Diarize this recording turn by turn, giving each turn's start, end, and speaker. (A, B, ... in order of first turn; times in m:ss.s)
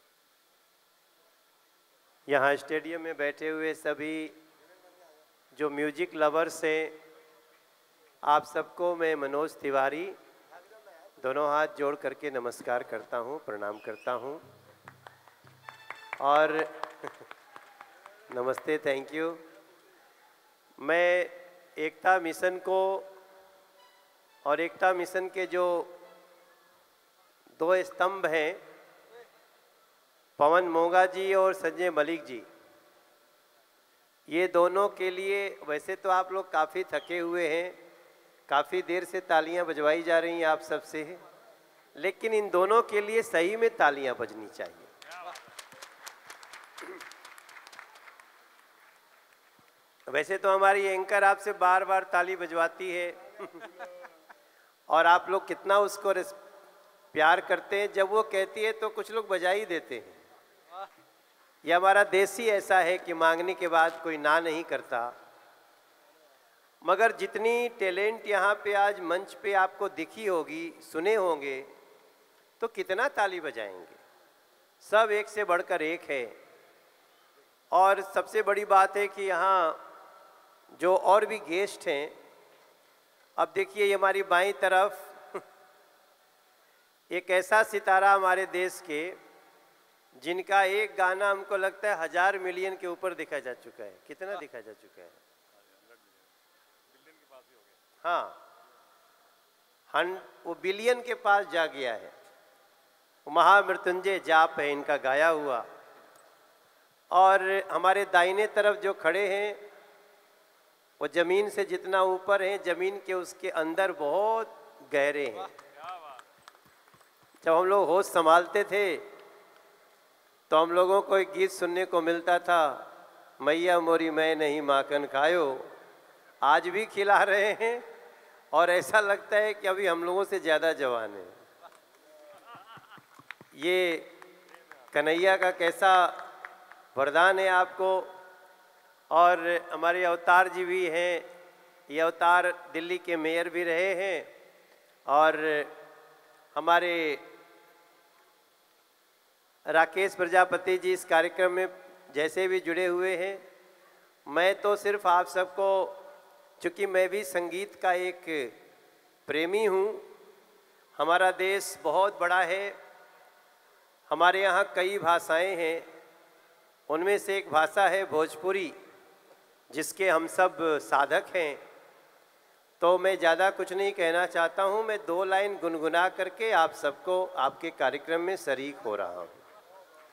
0:02.3-0:04.4 A
0:05.6-0:07.0 A
0:08.2-0:10.2 A
0:11.2-0:14.4 A
0:16.2-0:17.1 A
0:18.3-0:19.4 A
0:20.8-0:23.1 A
0:24.4-0:25.9 A
0:27.6-0:28.6 A
0:30.4-0:32.5 A
0:34.3-0:37.8 A
0:38.5-0:41.2 A
0:42.0-0:44.9 A
0:50.1-0:53.6 A
0:54.9-0:56.4 A
0:57.1-1:00.2 A
1:01.6-1:05.1 A
1:06.8-1:11.7 A
1:12.6-1:14.0 A
1:14.8-1:16.4 A
1:17.7-1:19.8 A
1:20.8-1:22.1 A
1:23.4-1:25.4 A
1:27.1-1:29.2 A
1:30.2-1:35.2 A
1:38.0-1:38.4 A
1:39.9-1:42.1 A
1:43.3-1:45.6 A
1:47.1-1:49.6 A
1:51.0-1:55.5 A
1:57.4-1:59.0 A
2:00.5-2:02.9 A
2:03.4-2:05.6 A
2:06.4-2:07.8 A
2:08.5-2:11.3 A
2:13.5-2:14.1 A
2:14.9-2:16.2 A
2:17.0-2:18.1 A
2:19.1-2:21.3 A
2:21.9-2:24.3 A
2:25.1-2:25.7 A
2:26.6-2:27.2 A
2:29.7-2:33.4 A
2:34.3-2:36.0 A
2:36.6-2:38.5 A
2:39.3-2:40.0 A
2:41.0-2:42.8 A
2:44.1-2:45.9 A
2:46.9-2:48.7 A
2:49.7-2:51.6 A
2:52.8-2:59.4 A